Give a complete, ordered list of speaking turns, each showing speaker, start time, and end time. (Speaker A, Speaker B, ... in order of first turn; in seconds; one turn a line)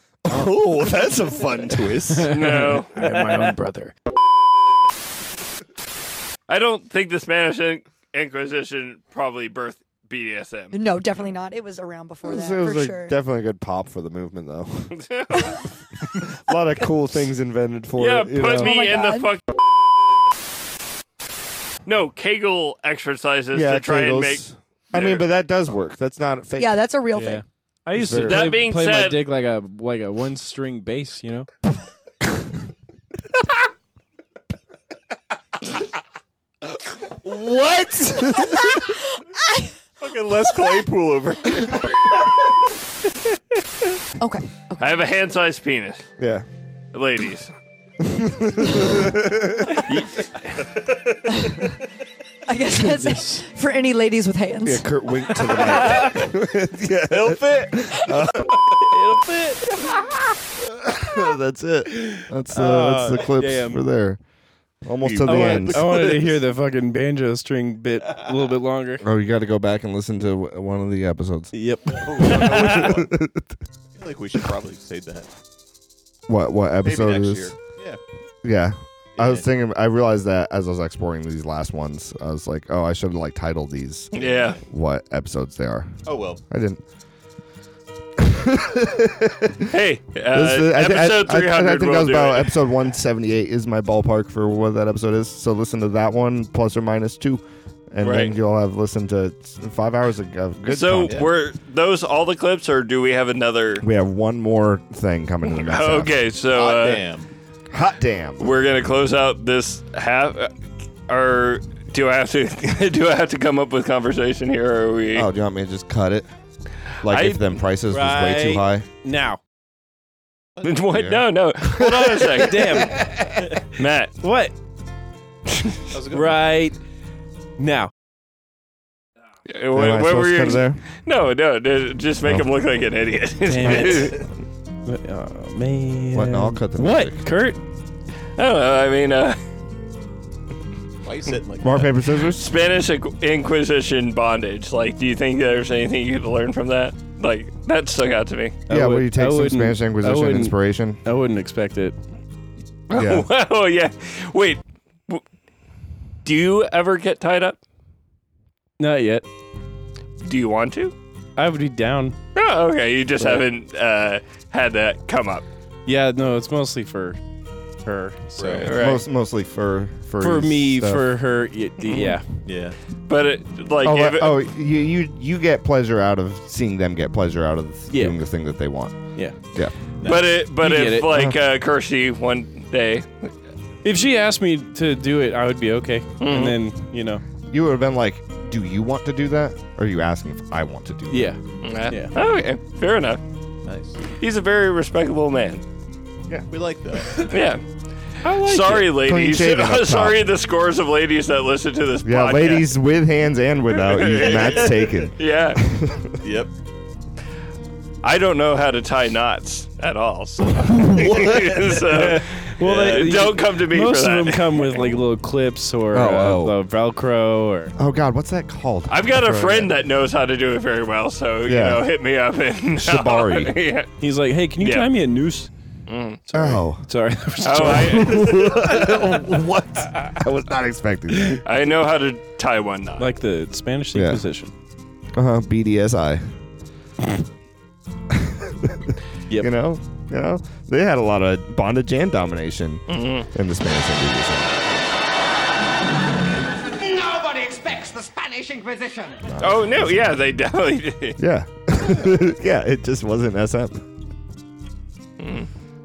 Speaker A: 0.2-2.3
Speaker B: 2.2-3.9
Speaker C: 2.3-2.9
Speaker C: 6.5-10.7
Speaker D: 10.7-13.1
Speaker A: 12.2-15.0
Speaker C: 15.0-15.6
Speaker A: 16.3-18.9
Speaker C: 18.0-19.4
Speaker D: 18.4-19.4
Speaker C: 21.9-25.3
Speaker A: 23.5-26.8
Speaker D: 26.6-27.4
Speaker B: 27.1-31.5
Speaker A: 27.9-28.6
Speaker C: 28.1-29.2
Speaker A: 37.2-38.8
Speaker E: 40.0-41.9
Speaker D: 44.2-44.8
Speaker C: 44.8-46.1
Speaker A: 46.2-46.4
Speaker C: 46.9-47.5
Speaker A: 48.0-49.9
Speaker C: 49.9-50.2
Speaker D: 52.5-56.0
Speaker B: 53.0-53.4
Speaker A: 54.6-58.6
Speaker E: 57.1-57.9
Speaker B: 58.8-59.6
Speaker A: 60.6-64.2
Speaker B: 62.5-63.9
Speaker A: 64.8-66.0
Speaker E: 65.0-66.4
Speaker B: 65.2-69.0
Speaker A: 69.0-71.5
Speaker B: 71.5-72.9
Speaker E: 72.0-73.1
Speaker A: 72.2-73.5
Speaker E: 74.0-75.3
Speaker A: 76.3-77.6
Speaker E: 76.8-78.0
Speaker A: 78.4-84.1
Speaker E: 79.2-79.5
Speaker E: 84.1-84.6
Speaker C: 84.2-84.6
Speaker A: 84.7-85.9
Speaker E: 86.0-86.4
Speaker A: 86.5-86.8
Speaker A: 88.2-89.7
Speaker C: 89.7-92.5
Speaker A: 90.3-101.2
Speaker C: 98.0-98.3
Speaker C: 100.7-103.8
Speaker A: 103.8-106.2
Speaker C: 105.5-107.0
Speaker E: 106.5-107.3
Speaker A: 107.7-108.4
Speaker C: 108.4-110.5
Speaker C: 111.1-115.3
Speaker A: 115.1-116.3
Speaker A: 117.0-118.8
Speaker C: 117.0-117.4
Speaker B: 117.9-119.4
Speaker C: 120.6-122.9
Speaker A: 120.9-122.3
Speaker B: 122.4-123.6
Speaker C: 123.8-124.1
Speaker B: 124.2-124.5
Speaker E: 125.9-126.4
Speaker B: 126.1-126.8
Speaker B: 127.6-127.9
Speaker C: 129.5-134.1
Speaker A: 129.7-130.8
Speaker B: 133.4-134.2
Speaker A: 133.7-134.2
Speaker B: 134.8-137.6
Speaker A: 136.1-137.2
Speaker C: 138.4-139.4
Speaker E: 141.0-141.9
Speaker A: 141.6-142.5
Speaker C: 142.3-148.6
Speaker A: 148.7-151.0
Speaker B: 148.7-151.9
Speaker C: 152.9-155.2
Speaker A: 152.9-153.2
Speaker C: 156.2-157.6
Speaker B: 158.8-159.2
Speaker C: 160.2-160.9
Speaker B: 161.4-162.2
Speaker C: 162.3-165.4
Speaker B: 165.8-167.2
Speaker B: 167.8-168.7
Speaker E: 168.4-168.7
Speaker C: 168.6-169.0
Speaker A: 168.7-171.1
Speaker B: 170.2-172.2
Speaker C: 171.9-172.2
Speaker E: 172.4-172.8
Speaker C: 173.1-174.4
Speaker A: 173.8-179.7
Speaker B: 177.9-178.2
Speaker E: 180.0-180.3
Speaker C: 180.0-183.1
Speaker B: 180.6-181.1
Speaker A: 181.0-181.4
Speaker B: 183.8-187.2
Speaker C: 186.2-186.6
Speaker A: 187.5-191.4
Speaker B: 191.1-192.1
Speaker C: 191.6-193.2
Speaker E: 193.7-194.0
Speaker C: 194.2-195.6
Speaker E: 196.5-197.3
Speaker C: 197.3-197.6
Speaker B: 198.2-198.8
Speaker C: 198.3-202.7
Speaker A: 198.8-200.3
Speaker A: 202.0-206.2
Speaker C: 203.7-205.6
Speaker E: 206.2-206.5
Speaker C: 208.0-214.9
Speaker A: 210.8-211.7
Speaker B: 211.9-217.7
Speaker E: 212.6-213.1
Speaker A: 215.9-216.6
Speaker A: 217.8-219.7
Speaker C: 218.9-223.9
Speaker A: 221.4-221.9
Speaker A: 222.8-223.6
Speaker B: 224.0-225.5
Speaker C: 224.6-224.9
Speaker C: 225.9-226.2
Speaker B: 226.3-229.1
Speaker A: 226.3-226.8
Speaker C: 227.4-228.8
Speaker A: 227.6-231.4
Speaker C: 231.4-233.0
Speaker B: 233.0-234.5
Speaker A: 233.9-234.2
Speaker A: 235.1-236.2
Speaker A: 238.1-244.5
Speaker C: 242.9-243.3
Speaker A: 249.2-250.1
Speaker C: 249.4-251.2
Speaker A: 251.2-253.8
Speaker C: 255.2-255.5